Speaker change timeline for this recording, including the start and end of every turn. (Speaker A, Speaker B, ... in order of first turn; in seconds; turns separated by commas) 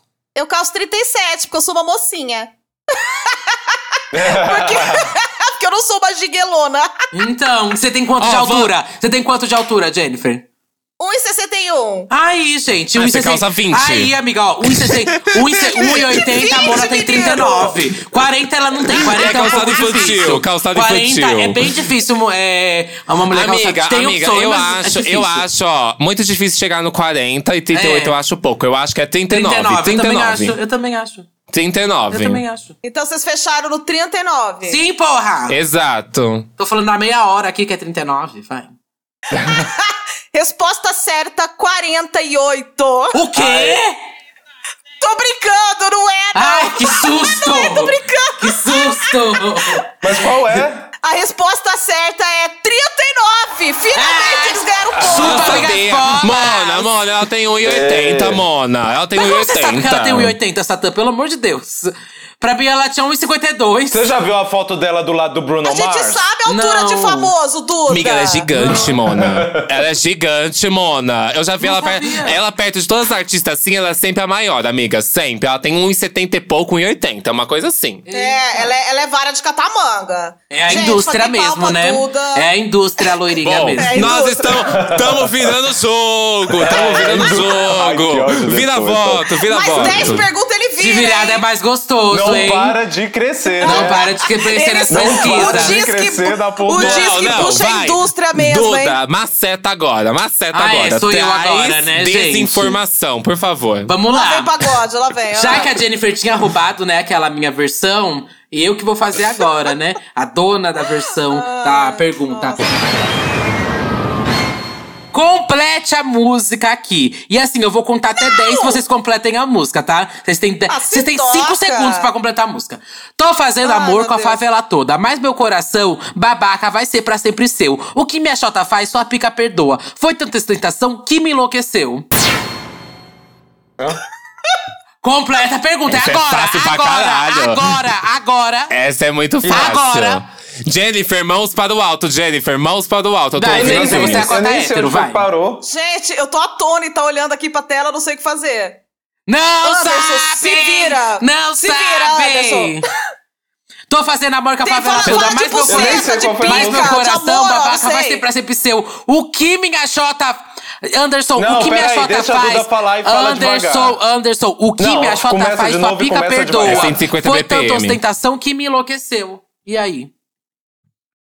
Speaker A: 0.3-7.1, Speaker B: 4.1-5.1, Speaker C: 7.1-10.4, Speaker D: 8.2-8.7, Speaker A: 11.0-12.1, Speaker C: 12.1-25.4, Speaker D: 12.9-14.1, Speaker D: 14.6-16.2, Speaker A: 16.0-17.8, Speaker D: 18.9-21.7, Speaker A: 19.1-20.1, Speaker D: 23.3-30.6, Speaker C: 27.7-28.1, Speaker C: 29.3-31.3, Speaker D: 31.5-32.4, Speaker C: 32.1-32.7, Speaker A: 32.8-34.8, Speaker C: 34.6-35.5, Speaker D: 35.5-36.5, Speaker C: 36.6-38.7, Speaker B: 39.3-39.6, Speaker A: 39.4-43.2, Speaker C: 43.1-44.0, Speaker B: 43.3-43.8, Speaker A: 45.0-49.1, Speaker C: 46.3-49.8, Speaker B: 50.0-50.9, Speaker A: 51.0-55.7, Speaker C: 53.9-56.9, Speaker B: 55.0-55.5, Speaker D: 55.1-60.4, Speaker B: 57.6-58.4, Speaker C: 59.1-64.0, Speaker B: 63.9-66.2, Speaker A: 65.6-68.5, Speaker C: 66.5-67.3, Speaker D: 67.9-78.0, Speaker C: 68.5-68.9, Speaker B: 68.6-69.7, Speaker C: 71.6-72.4, Speaker C: 78.0-78.8, Speaker A: 78.1-82.5, Speaker C: 80.5-84.1, Speaker D: 83.4-90.3, Speaker A: 83.8-84.6, Speaker B: 84.6-85.5, Speaker B: 86.5-90.2, Speaker A: 89.5-91.4, Speaker C: 90.8-92.8, Speaker B: 92.1-94.1, Speaker A: 93.6-99.0, Speaker C: 93.6-95.8, Speaker B: 94.9-97.5, Speaker D: 96.7-103.9, Speaker C: 100.5-102.8, Speaker C: 103.9-104.5, Speaker A: 104.1-105.8, Speaker C: 105.3-112.6, Speaker A: 111.3-112.7, Speaker C: 115.1-132.1, Speaker A: 118.2-118.8, Speaker A: 120.7-122.1, Speaker A: 123.6-124.4, Speaker C: 135.0-138.7, Speaker D: 135.9-137.8, Speaker D: 138.7-144.3, Speaker B: 139.4-139.7, Speaker C: 139.5-140.2, Speaker C: 143.3-145.2, Speaker B: 143.5-145.6, Speaker A: 145.6-148.8, Speaker C: 149.3-152.8, Speaker A: 149.6-152.8, Speaker C: 153.9-170.1, Speaker A: 154.6-158.2, Speaker B: 155.7-157.0, Speaker B: 161.3-164.0, Speaker B: 164.8-167.0, Speaker D: 166.6-168.0